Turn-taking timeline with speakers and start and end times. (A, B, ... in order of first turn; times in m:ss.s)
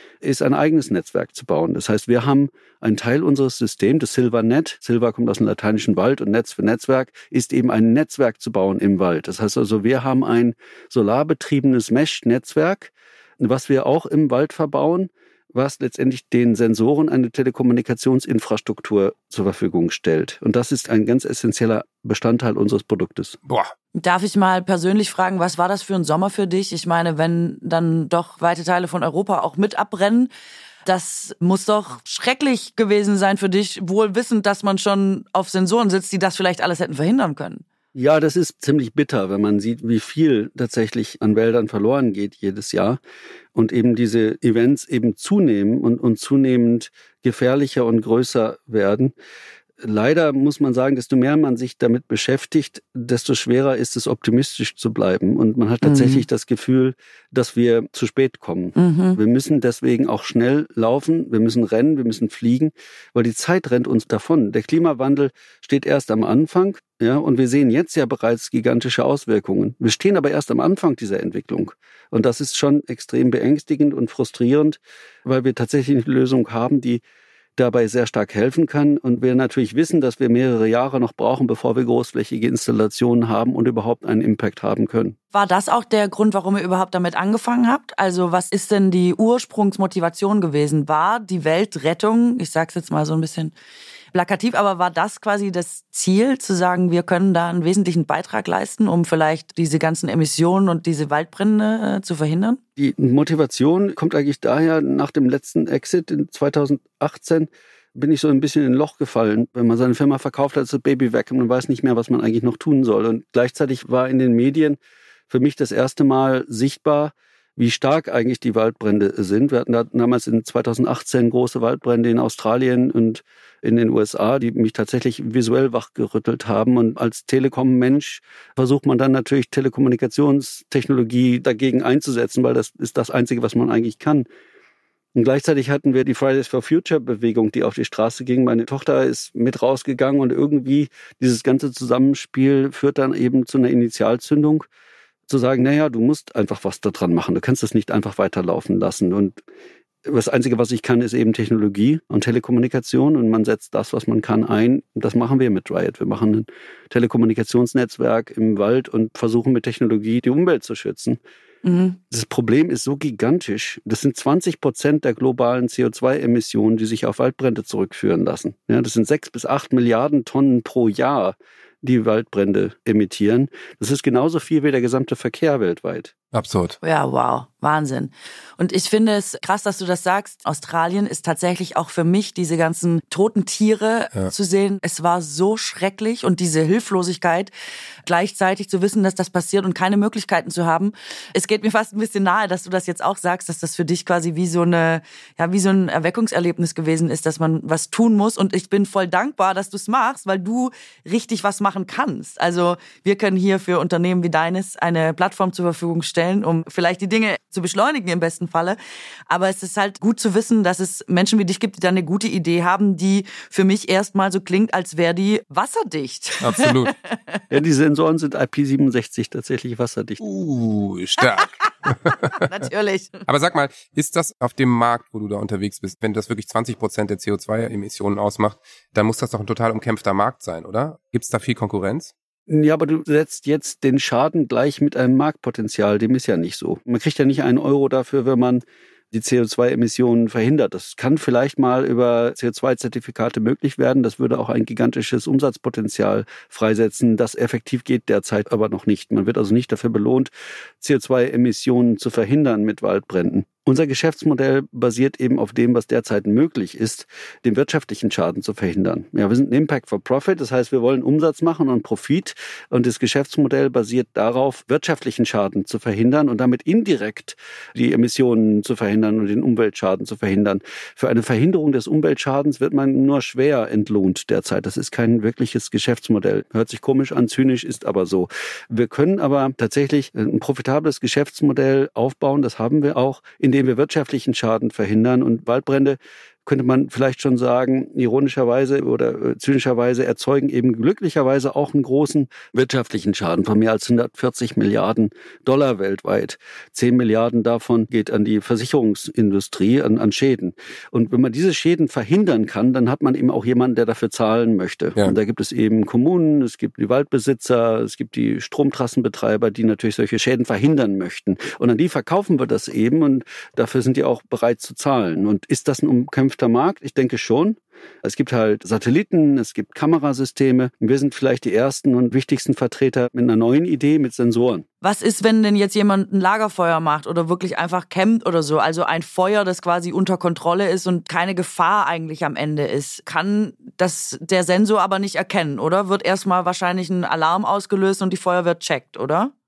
0:00.2-0:23.4 A
0:23.5-0:23.7 B
0:24.0-0:30.3 C
0:30.9-0:37.6 C
0:37.9-0:43.0 A
0:43.6-0:49.1 A
0:49.8-1:17.0 A
0:55.8-0:56.2 C
0:58.8-0:59.2 C
1:17.6-1:25.2 A
1:25.3-1:33.5 C
1:34.1-1:42.6 C
1:42.8-1:54.8 A
1:55.3-2:14.2 A
2:15.1-2:24.7 A
2:25.3-2:29.4 A
2:30.0-2:41.2 A
2:41.6-2:42.0 C
2:42.1-2:56.1 A
2:56.3-2:56.8 B
2:56.8-3:07.5 C
3:08.0-3:28.8 C
3:29.3-3:37.4 C
3:36.4-3:36.9 B
3:37.5-3:40.2 A
3:40.2-3:42.4 B
3:42.1-3:43.2 C
3:43.2-3:52.1 B
3:52.5-5:24.6 A
5:24.8-5:39.3 C